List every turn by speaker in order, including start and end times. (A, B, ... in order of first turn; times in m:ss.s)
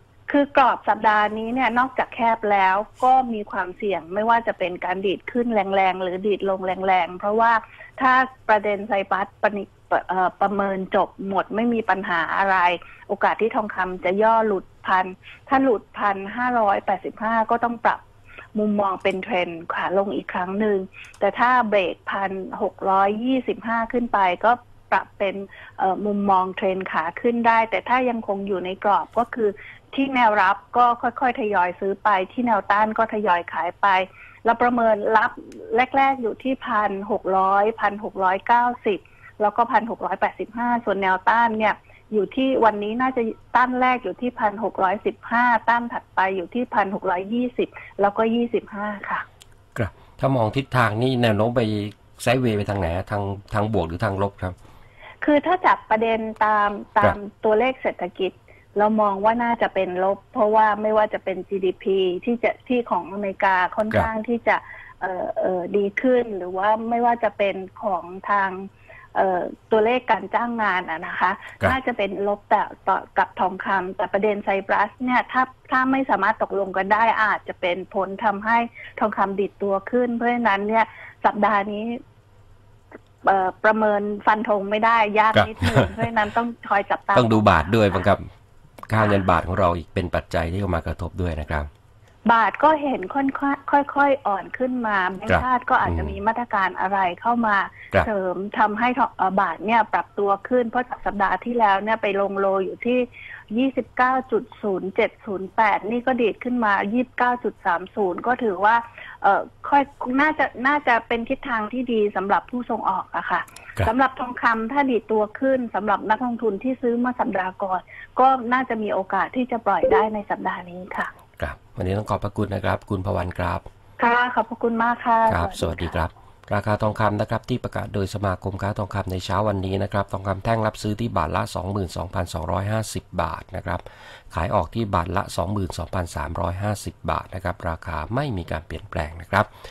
0:00.3-0:18.0 A
0:18.5-0:49.2 A
0:49.7-0:54.5 B
0:55.2-1:22.0 A
1:23.2-1:28.0 A
1:25.3-1:25.9 B
1:27.1-1:28.2 B
1:28.9-1:31.7 B
1:32.2-2:01.1 A
1:35.3-1:36.1 B
2:01.4-2:03.6 B
2:04.0-2:06.0 A
2:05.3-2:19.5 B